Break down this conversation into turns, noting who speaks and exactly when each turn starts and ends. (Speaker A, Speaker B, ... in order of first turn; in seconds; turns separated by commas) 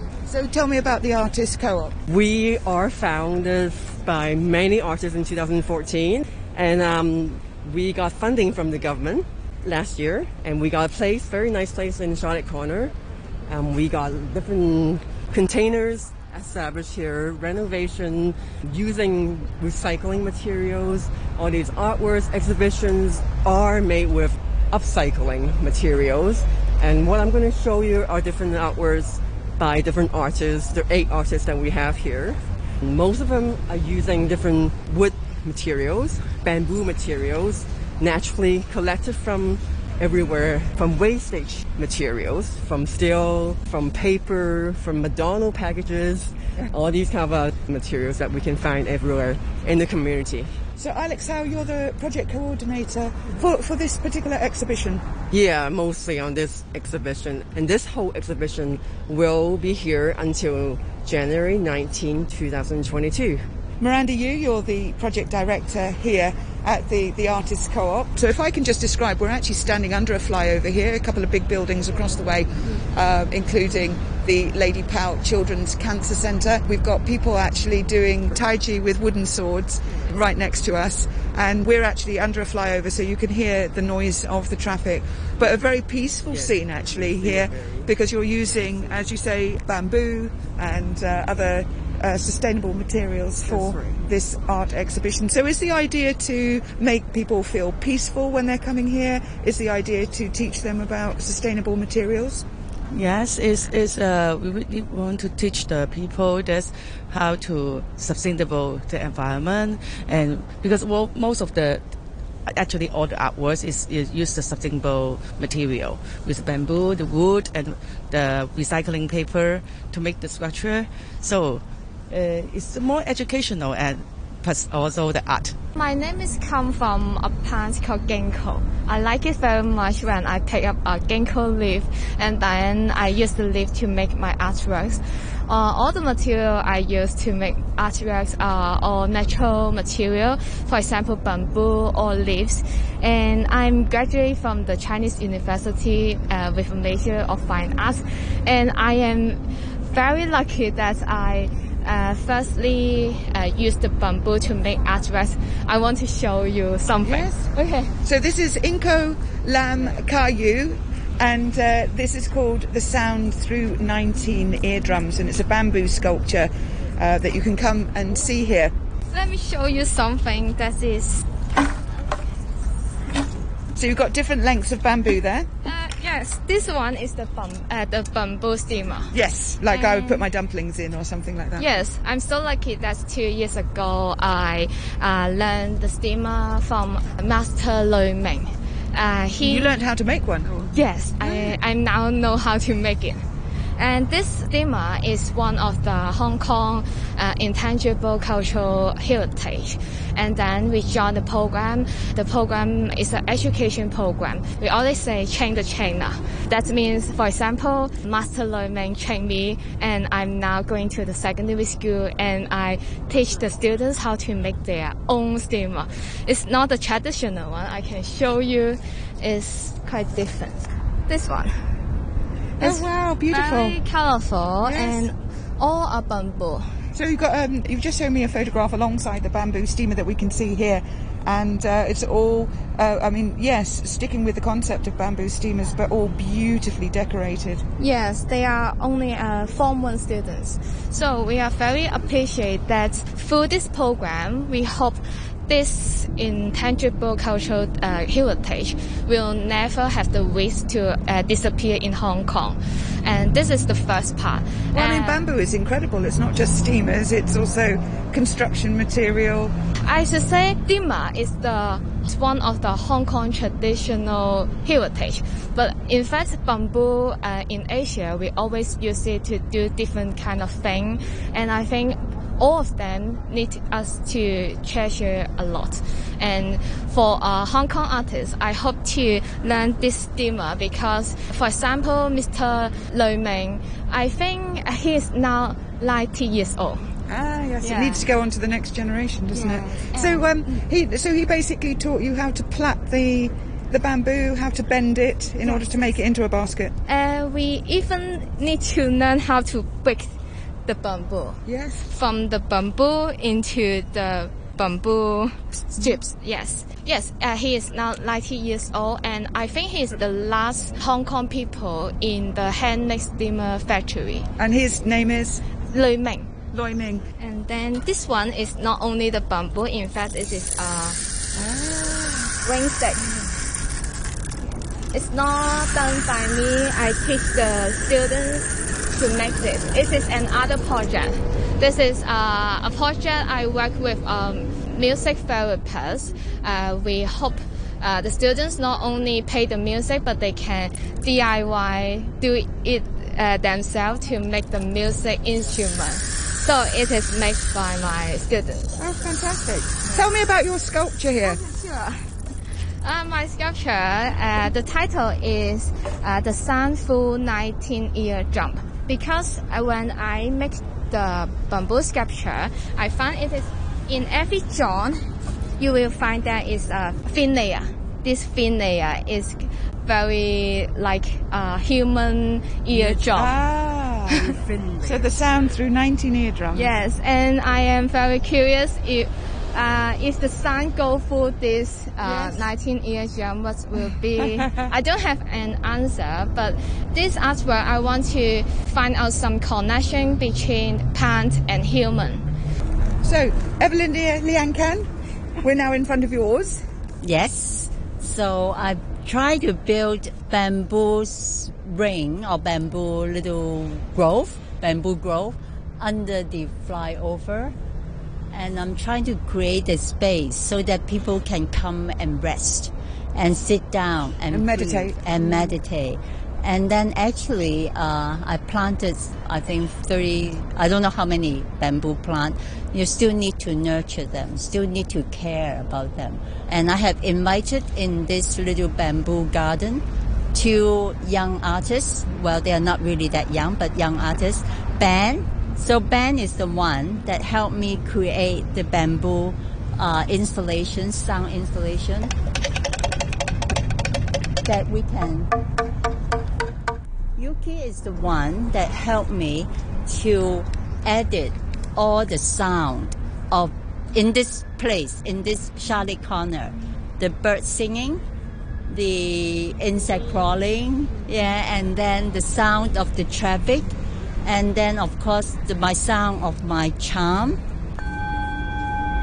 Speaker A: 0.3-2.0, Speaker B: 2.1-12.9, Speaker B: 13.5-50.5, Speaker A: 50.8-55.0, Speaker B: 55.3-63.4, Speaker A: 63.8-102.5, Speaker B: 86.3-87.9, Speaker B: 93.5-94.0, Speaker C: 102.9-111.9, Speaker C: 112.5-125.5, Speaker D: 125.8-157.9, Speaker A: 157.0-157.5, Speaker A: 158.1-168.7, Speaker D: 169.1-171.3, Speaker A: 173.8-175.5, Speaker D: 175.7-179.1, Speaker A: 179.1-181.7, Speaker D: 179.7-180.2, Speaker D: 181.6-189.7, Speaker A: 189.4-191.6, Speaker D: 190.7-193.2, Speaker D: 193.8-221.5, Speaker A: 222.6-223.8, Speaker D: 222.6-226.7, Speaker A: 224.6-225.1, Speaker A: 226.9-237.6, Speaker D: 237.8-255.2, Speaker A: 254.7-259.5, Speaker D: 259.8-286.8, Speaker A: 287.1-296.7, Speaker D: 287.6-288.0, Speaker D: 289.3-290.3, Speaker D: 296.9-300.1, Speaker D: 300.7-314.3, Speaker A: 301.5-301.8, Speaker A: 314.4-315.4, Speaker D: 315.7-316.3, Speaker A: 316.5-317.0, Speaker D: 317.2-321.0, Speaker A: 321.4-322.3, Speaker D: 322.4-323.2, Speaker D: 324.4-348.7, Speaker A: 348.8-351.4, Speaker D: 351.2-352.0, Speaker D: 352.8-365.0, Speaker D: 365.6-373.4, Speaker A: 372.8-374.2, Speaker E: 374.1-375.3, Speaker A: 374.8-376.7, Speaker D: 376.5-392.3, Speaker A: 382.0-382.4, Speaker A: 393.0-394.9, Speaker A: 395.4-396.6, Speaker E: 397.0-407.6, Speaker E: 408.3-429.8, Speaker A: 414.3-415.6, Speaker E: 430.3-442.1, Speaker E: 444.4-445.3, Speaker E: 447.2-458.0, Speaker E: 458.7-467.4